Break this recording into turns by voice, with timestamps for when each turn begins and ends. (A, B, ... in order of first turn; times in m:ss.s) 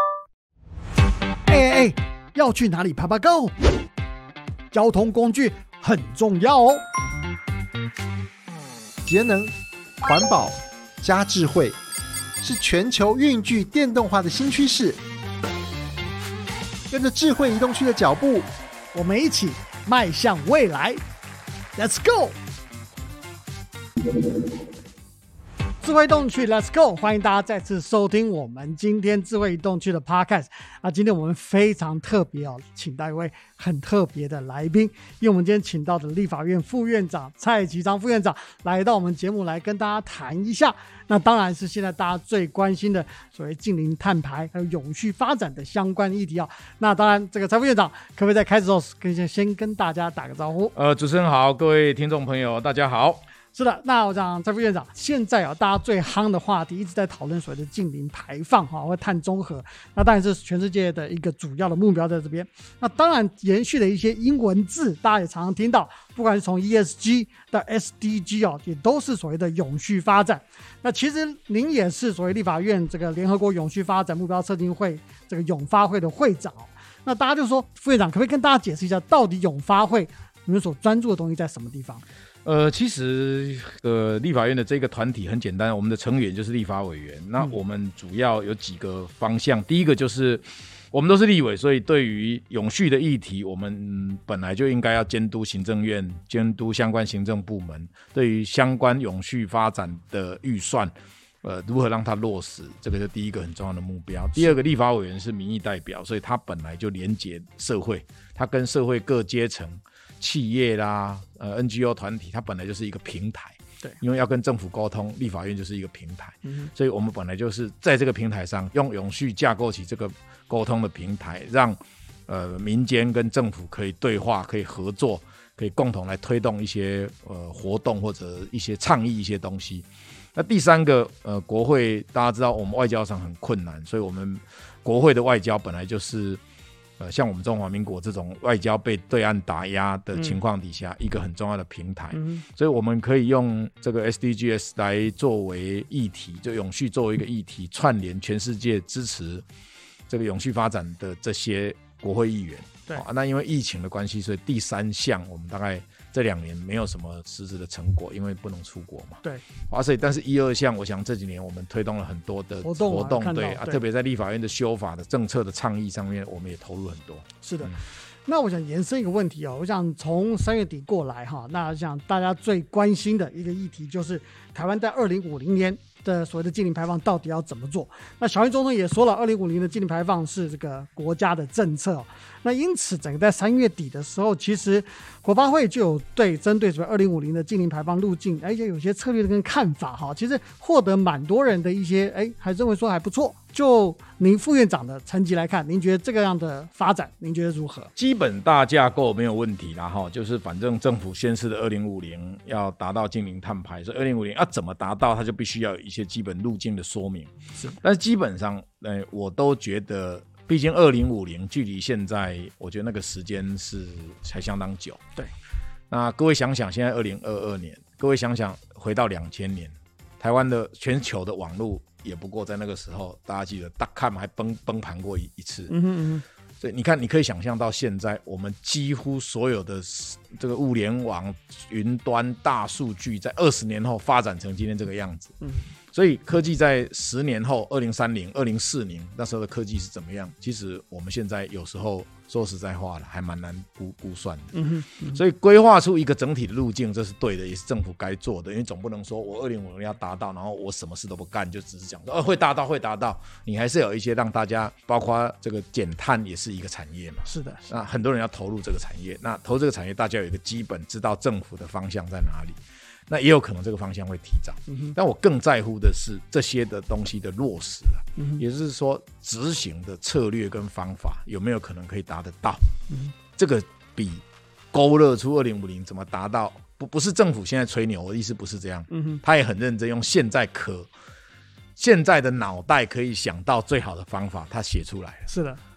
0:01.5-0:03.5 A
0:04.7-0:06.8 A
0:09.0-0:11.8 B
0:12.4-0:15.0 B
0:16.9-0:18.5 B
0:18.9-0:21.0 A
0:21.8-0:22.4 A
0:25.8-0:50.7 A
0:50.8-0:53.2 C
0:53.5-1:22.0 A
1:22.4-2:16.4 C
1:56.4-1:56.7 A
2:17.0-2:29.4 C
2:22.1-2:22.4 A
2:30.1-2:47.8 C
2:42.6-2:43.8 A
2:47.4-3:17.9 A
3:18.0-3:35.0 C
3:35.9-3:45.7 C
3:45.7-3:46.2 A
3:46.6-3:55.4 C
3:55.9-4:32.6 C
4:04.5-4:05.2 A
4:17.3-4:17.7 A
4:24.7-4:25.0 A
4:28.2-4:28.4 A
4:33.4-4:40.9 C
4:38.9-4:39.2 A
4:41.8-4:45.3 C
4:45.3-4:45.6 A